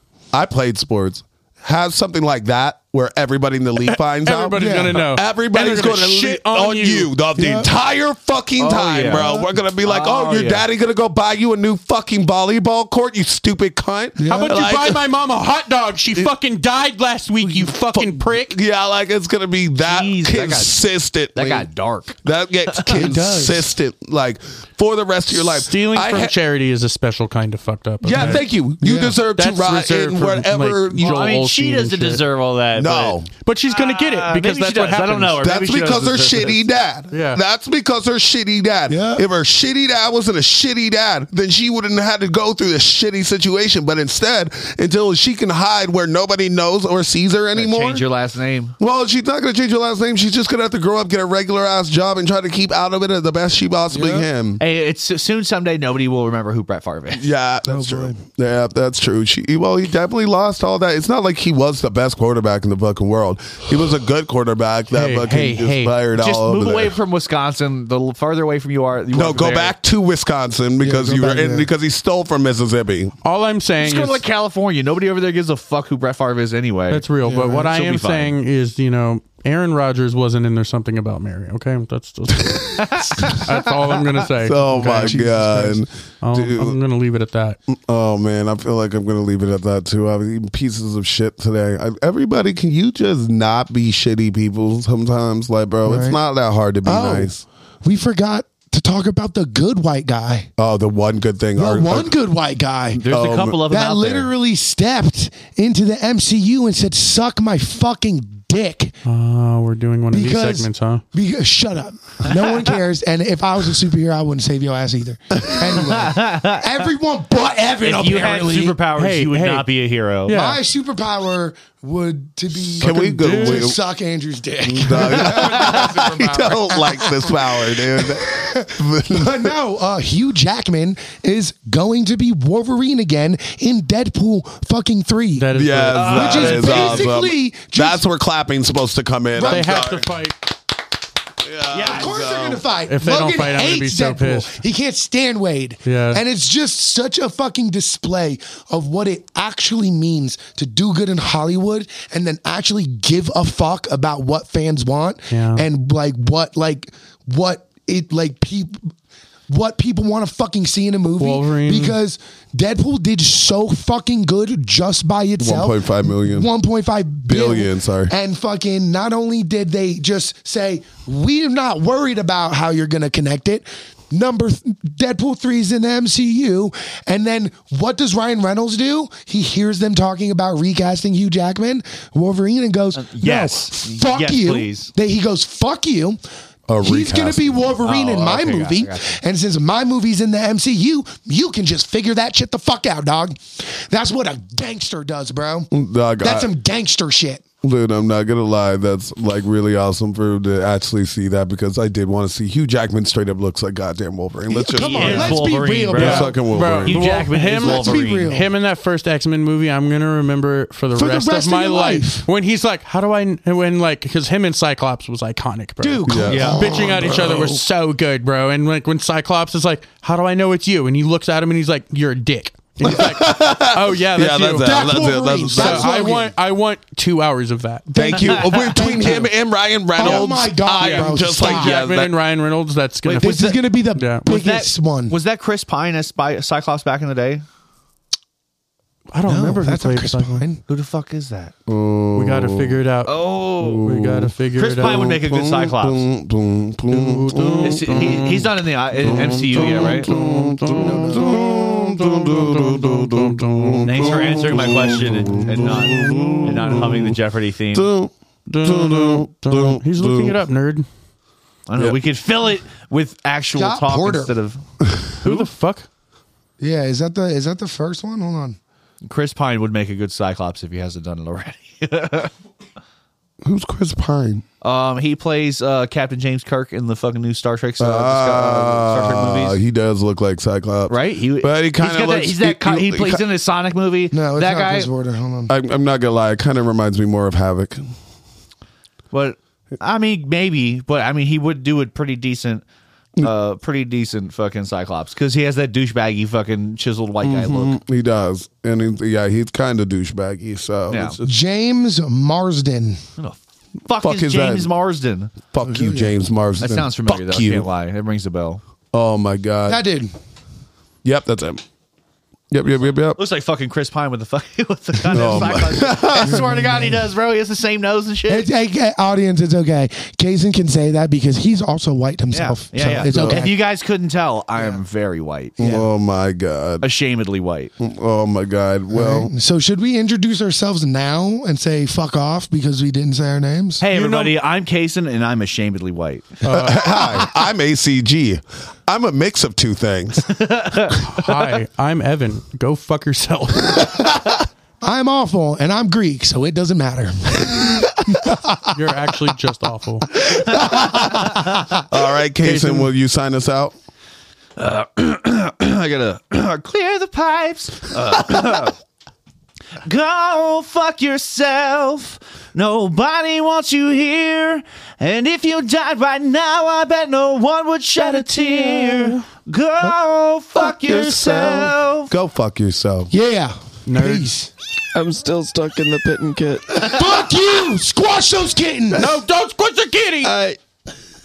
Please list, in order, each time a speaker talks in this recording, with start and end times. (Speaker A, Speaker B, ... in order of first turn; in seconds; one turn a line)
Speaker A: 0.3-15.0
Speaker B: 3.8-7.1
Speaker C: 4.5-5.0
Speaker C: 7.3-7.7
Speaker D: 8.6-10.6
Speaker C: 9.1-9.5
Speaker C: 14.2-14.6
Speaker B: 14.3-18.6
Speaker A: 17.4-21.7
Speaker D: 19.8-20.8
Speaker D: 21.3-23.0
Speaker A: 22.2-26.4
Speaker C: 22.9-23.7
Speaker B: 25.3-28.4
Speaker A: 28.0-31.3
Speaker C: 28.1-29.2
Speaker B: 29.3-32.2
Speaker D: 31.0-36.6
Speaker A: 32.8-33.3
Speaker B: 33.4-35.4
Speaker A: 35.4-48.0
Speaker B: 37.1-37.4
Speaker C: 38.9-39.2
Speaker D: 47.5-48.8
Speaker A: 48.8-54.6
Speaker C: 53.9-54.3
Speaker D: 54.6-57.3
Speaker A: 57.1-66.9
Speaker C: 57.6-58.2
Speaker B: 64.9-65.9
Speaker D: 66.1-69.7
Speaker A: 69.1-73.2
Speaker C: 70.8-71.7
Speaker B: 73.2-74.2
Speaker D: 73.8-78.3
Speaker B: 76.9-87.6
Speaker C: 77.2-77.7
Speaker D: 82.8-84.2
Speaker A: 84.4-86.8
Speaker C: 84.8-85.7
Speaker A: 87.7-97.4
Speaker C: 95.8-96.2
Speaker C: 96.8-100.5
Speaker A: 100.6-102.1
Speaker C: 101.5-103.0
Speaker D: 103.0-104.3
Speaker A: 103.0-103.6
Speaker C: 103.6-108.9
Speaker B: 109.0-111.0
Speaker C: 110.1-118.8
Speaker D: 115.7-116.7
Speaker D: 117.8-120.3
Speaker B: 118.9-119.7
Speaker B: 120.2-120.6
Speaker C: 120.3-138.0
Speaker A: 122.7-123.8
Speaker B: 122.8-123.7
Speaker A: 124.6-129.5
Speaker B: 135.4-137.0
Speaker A: 135.5-140.1
Speaker D: 135.9-137.0
Speaker C: 139.3-139.9
Speaker B: 139.4-140.5
Speaker A: 141.4-142.7
Speaker C: 141.7-158.9
Speaker B: 142.9-144.6
Speaker B: 145.8-146.2
Speaker B: 155.3-155.6
Speaker C: 159.5-186.2
Speaker B: 161.2-161.9
Speaker A: 165.4-166.5
Speaker A: 167.3-168.1
Speaker D: 182.9-184.9
Speaker A: 186.7-187.7
Speaker C: 186.8-195.7
Speaker D: 187.8-189.1
Speaker A: 195.7-196.5
Speaker C: 196.2-197.4
Speaker A: 197.6-207.1
Speaker C: 204.5-206.4
Speaker D: 204.7-208.4
Speaker B: 205.0-205.4
Speaker B: 205.9-224.9
Speaker C: 207.5-208.5
Speaker C: 210.9-212.3
Speaker C: 215.8-217.7
Speaker A: 216.1-216.6
Speaker D: 216.2-216.9
Speaker A: 222.8-225.9
Speaker C: 224.6-226.3
Speaker B: 225.5-227.9
Speaker C: 227.9-229.3
Speaker A: 227.9-232.1
Speaker C: 229.9-231.8
Speaker B: 230.0-230.3
Speaker B: 230.8-234.3
Speaker D: 233.0-233.4
Speaker C: 233.2-235.2
Speaker D: 234.2-237.4
Speaker B: 239.1-240.4
Speaker C: 239.2-240.6
Speaker D: 240.7-241.5
Speaker A: 241.7-242.8
Speaker B: 242.1-245.2
Speaker D: 243.0-243.9
Speaker A: 243.6-248.4
Speaker D: 244.5-246.1
Speaker B: 246.9-248.5
Speaker D: 247.6-250.1
Speaker A: 248.9-257.2
Speaker B: 249.9-254.7
Speaker C: 250.8-251.4
Speaker D: 253.8-257.9
Speaker B: 255.3-256.5
Speaker A: 257.7-260.4
Speaker B: 258.5-260.9
Speaker D: 261.7-264.6
Speaker C: 263.5-264.3
Speaker A: 265.0-265.5
Speaker B: 265.2-265.9
Speaker C: 266.6-268.6
Speaker D: 269.0-272.3
Speaker A: 273.4-274.4
Speaker D: 274.6-279.6
Speaker A: 277.8-283.2
Speaker D: 280.9-284.9
Speaker C: 284.1-285.5
Speaker A: 285.5-287.8
Speaker D: 289.1-292.6
Speaker D: 293.2-297.8
Speaker A: 297.2-301.3
Speaker D: 300.9-301.2
Speaker C: 301.2-303.0
Speaker D: 303.2-305.3
Speaker A: 304.0-304.7
Speaker A: 305.5-307.7
Speaker C: 305.6-306.1
Speaker D: 306.6-308.6
Speaker A: 308.9-309.8
Speaker C: 309.6-310.1
Speaker A: 311.0-311.6
Speaker A: 312.5-313.2
Speaker D: 313.1-318.5
Speaker A: 315.0-316.5
Speaker C: 316.2-317.0
Speaker C: 318.3-323.6
Speaker D: 322.3-325.6
Speaker A: 323.0-323.4
Speaker A: 325.6-326.9
Speaker C: 325.6-325.9
Speaker D: 326.8-327.7
Speaker A: 327.8-329.3
Speaker C: 328.9-333.8
Speaker D: 333.8-336.4
Speaker B: 333.9-334.4
Speaker B: 336.4-336.9
Speaker A: 336.5-341.0
Speaker D: 340.3-340.9
Speaker B: 341.0-344.1
Speaker C: 344.8-348.8
Speaker B: 348.7-350.2
Speaker C: 350.6-351.5
Speaker A: 350.6-351.2
Speaker D: 350.9-351.5
Speaker A: 351.9-353.7
Speaker B: 352.4-352.9
Speaker D: 354.6-358.7
Speaker D: 359.8-372.1
Speaker B: 368.0-369.2
Speaker A: 370.6-373.1
Speaker C: 373.1-374.5
Speaker B: 373.9-374.3
Speaker E: 374.9-377.1
Speaker C: 376.7-379.1
Speaker B: 378.9-380.3
Speaker E: 380.2-380.6